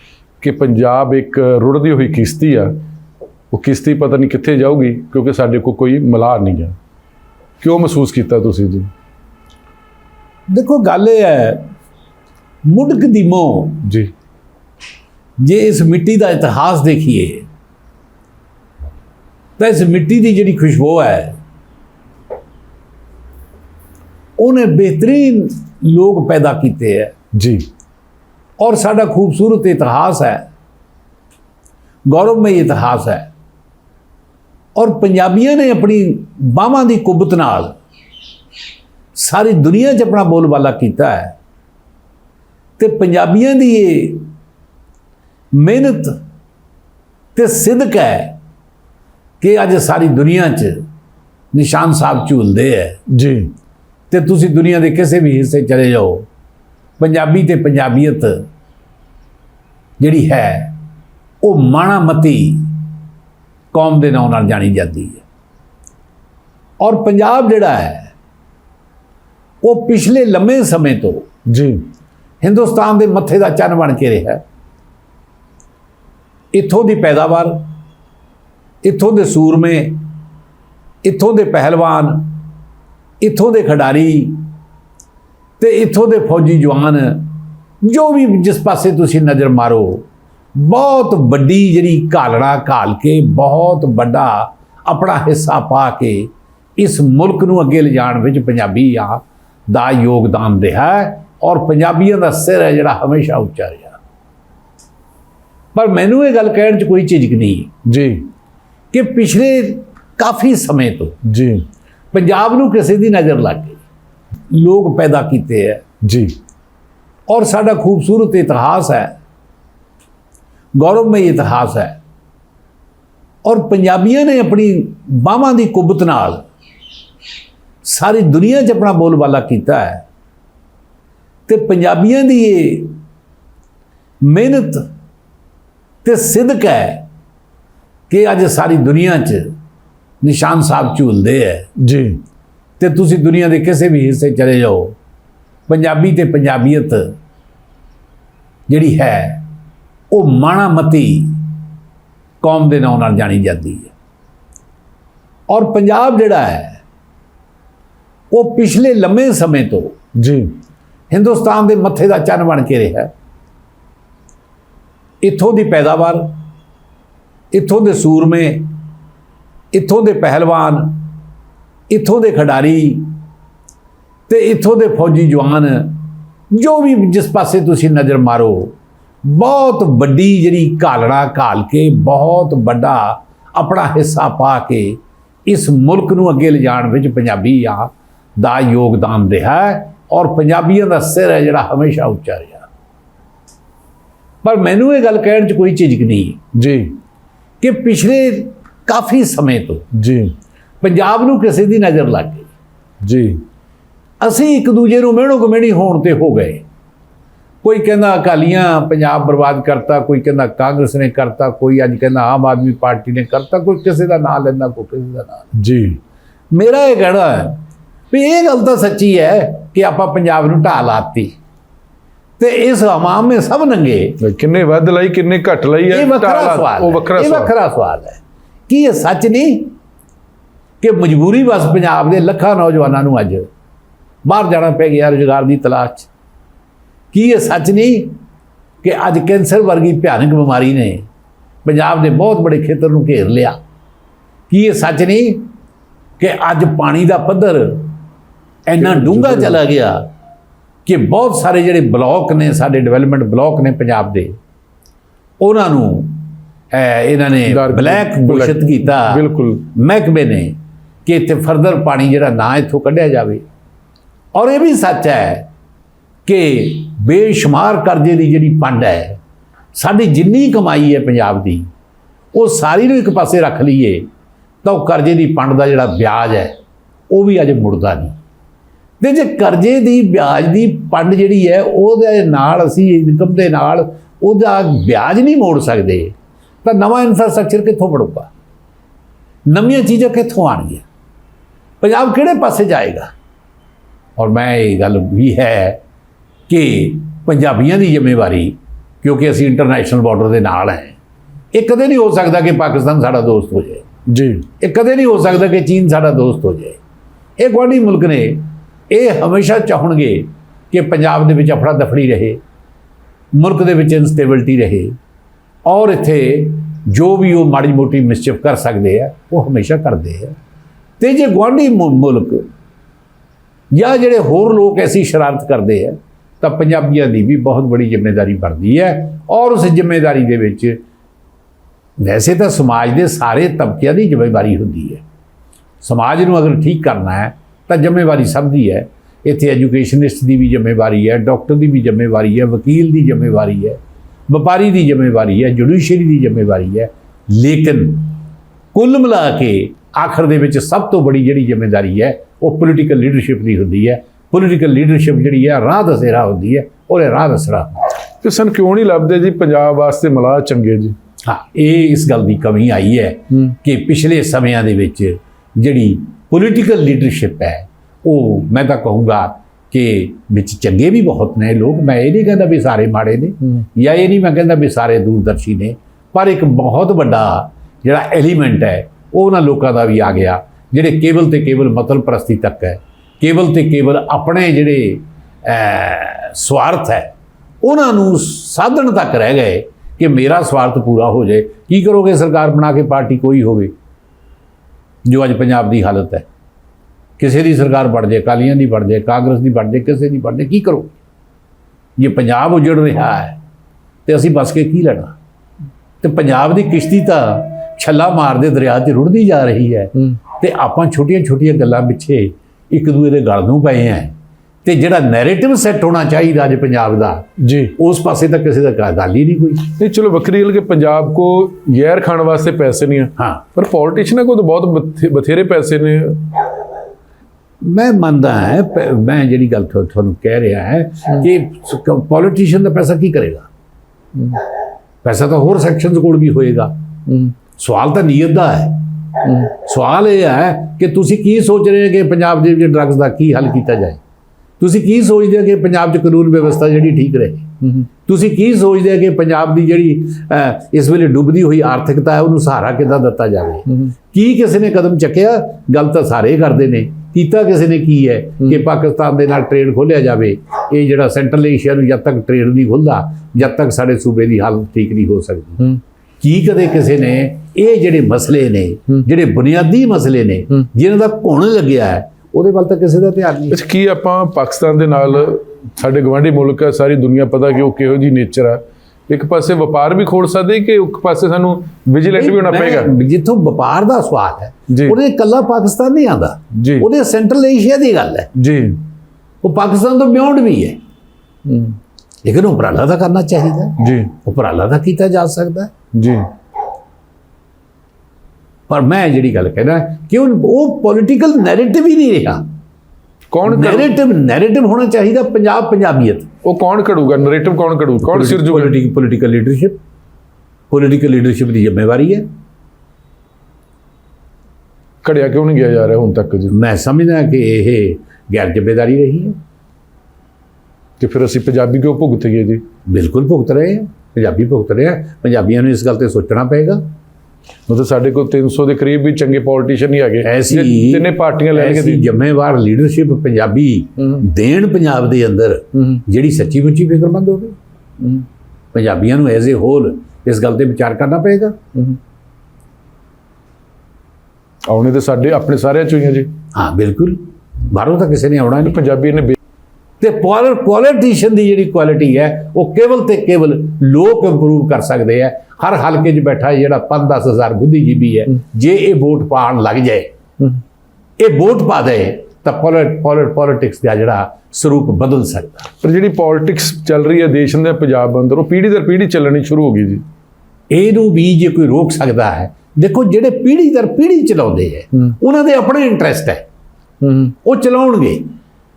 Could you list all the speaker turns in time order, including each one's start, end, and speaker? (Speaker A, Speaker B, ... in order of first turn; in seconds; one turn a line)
Speaker A: 0.4-2.7
Speaker A: 3.5-6.8
Speaker A: 7.6-8.9
Speaker B: 10.5-11.6
Speaker B: 12.7-13.8
Speaker A: 13.8-14.1
Speaker B: 15.4-17.4
Speaker B: 19.6-21.3
Speaker B: 24.4-27.1
Speaker A: 27.4-27.6
Speaker B: 28.6-30.4
Speaker B: 32.1-33.3
Speaker B: 34.7-37.7
Speaker B: 39.1-41.3
Speaker B: 42.8-44.3
Speaker B: 45.5-46.2
Speaker B: 47.3-48.3
Speaker B: 49.4-50.8
Speaker B: 51.5-53.0
Speaker A: 53.1-53.5
Speaker B: 54.1-56.2
Speaker B: 57.0-58.4
Speaker B: 60.0-60.7
Speaker B: 61.4-62.7
Speaker B: 63.7-65.2
Speaker B: 66.8-68.1
Speaker B: 69.6-71.2
Speaker A: 71.5-71.8
Speaker B: 72.4-74.4
Speaker B: 76.5-77.6
Speaker B: 78.8-80.0
Speaker B: 81.0-82.3
Speaker B: 83.2-84.4
Speaker B: 85.6-87.3
Speaker B: 87.8-90.0
Speaker B: 90.5-104.0
Speaker B: 105.7-107.7
Speaker A: 107.8-108.2
Speaker B: 108.9-111.1
Speaker A: 111.2-111.6
Speaker B: 112.1-113.8
Speaker B: 114.5-115.8
Speaker A: 116.0-116.3
Speaker B: 117.3-119.1
Speaker B: 120.8-122.0
Speaker B: 123.4-126.4
Speaker B: 127.8-130.0
Speaker B: 131.5-133.0
Speaker B: 134.2-134.8
Speaker B: 136.0-137.0
Speaker B: 138.1-139.5
Speaker B: 140.2-141.7
Speaker A: 141.8-142.2
Speaker B: 142.8-144.9
Speaker B: 145.7-147.1
Speaker B: 148.7-149.4
Speaker B: 150.1-151.4
Speaker B: 152.4-153.9
Speaker B: 155.5-156.8
Speaker B: 158.3-159.9
Speaker A: 160.2-160.5
Speaker B: 161.1-163.1
Speaker B: 165.2-166.3
Speaker B: 167.5-168.7
Speaker B: 169.7-171.0
Speaker B: 171.9-173.1
Speaker B: 174.3-176.0
Speaker B: 176.5-178.7
Speaker B: 179.2-192.7
Speaker B: 194.4-196.4
Speaker A: 196.5-196.9
Speaker B: 197.6-199.8
Speaker A: 199.9-200.3
Speaker B: 200.8-202.5
Speaker A: 203.0-203.4
Speaker B: 204.2-206.6
Speaker B: 207.6-215.5
Speaker A: 215.5-216.0
Speaker B: 216.5-217.6
Speaker B: 218.1-221.3
Speaker B: 222.4-224.2
Speaker A: 224.2-227.5
Speaker B: 225.9-229.7
Speaker B: 230.8-233.5
Speaker B: 234.2-236.1
Speaker B: 237.1-238.2
Speaker B: 238.8-241.0
Speaker B: 241.6-243.6
Speaker B: 244.5-245.4
Speaker B: 246.2-247.9
Speaker B: 248.7-250.0
Speaker A: 248.8-249.6
Speaker B: 250.8-254.3
Speaker B: 255.4-260.5
Speaker A: 257.5-259.6
Speaker B: 261.1-263.4
Speaker B: 264.3-265.4
Speaker B: 266.2-269.2
Speaker B: 269.7-271.7
Speaker B: 272.3-274.0
Speaker B: 274.6-276.5
Speaker B: 277.1-278.1
Speaker B: 279.0-286.1
Speaker B: 286.6-288.3
Speaker B: 289.5-290.8
Speaker B: 291.8-293.1
Speaker B: 294.2-295.8
Speaker B: 296.5-300.9
Speaker B: 301.5-303.8
Speaker A: 304.1-304.5
Speaker B: 304.6-306.8
Speaker B: 307.4-312.4
Speaker B: 313.3-314.9
Speaker B: 315.6-320.4
Speaker B: 321.0-322.4
Speaker B: 323.7-330.8
Speaker B: 332.0-335.0
Speaker B: 335.8-348.1
Speaker B: 348.7-357.7
Speaker A: 358.2-360.9
Speaker B: 361.2-387.1
Speaker B: 387.6-393.7
Speaker B: 395.0-396.2
Speaker B: 397.2-400.9
Speaker B: 402.0-403.4
Speaker B: 404.1-405.1
Speaker B: 406.0-414.1
Speaker B: 414.6-417.2
Speaker A: 417.4-417.7
Speaker B: 417.8-419.6
Speaker A: 419.8-426.3
Speaker B: 427.6-433.5
Speaker B: 435.0-436.7
Speaker A: 437.1-437.3
Speaker B: 437.6-444.0
Speaker B: 444.6-447.5
Speaker B: 448.1-473.6
Speaker A: 473.5-482.9
Speaker B: 482.1-488.3
Speaker A: 484.7-485.0
Speaker A: 486.5-486.9
Speaker A: 488.4-488.8
Speaker B: 489.4-490.8
Speaker A: 491.5-491.8
Speaker B: 492.2-495.7
Speaker A: 493.8-494.2
Speaker A: 495.9-496.3
Speaker B: 498.7-502.4
Speaker A: 503.3-503.9
Speaker B: 503.4-506.3
Speaker A: 506.4-508.8
Speaker B: 508.0-509.8
Speaker B: 510.7-512.2
Speaker A: 515.0-516.5
Speaker B: 516.5-519.4
Speaker A: 521.0-522.6
Speaker B: 522.9-526.8
Speaker A: 527.7-532.1
Speaker B: 530.2-537.5
Speaker B: 538.7-541.6
Speaker A: 544.7-546.3
Speaker B: 546.5-548.8
Speaker A: 548.6-549.4
Speaker B: 550.0-560.1
Speaker B: 561.2-565.7
Speaker A: 565.8-570.0
Speaker B: 570.7-576.4
Speaker A: 577.0-577.3
Speaker B: 577.2-578.2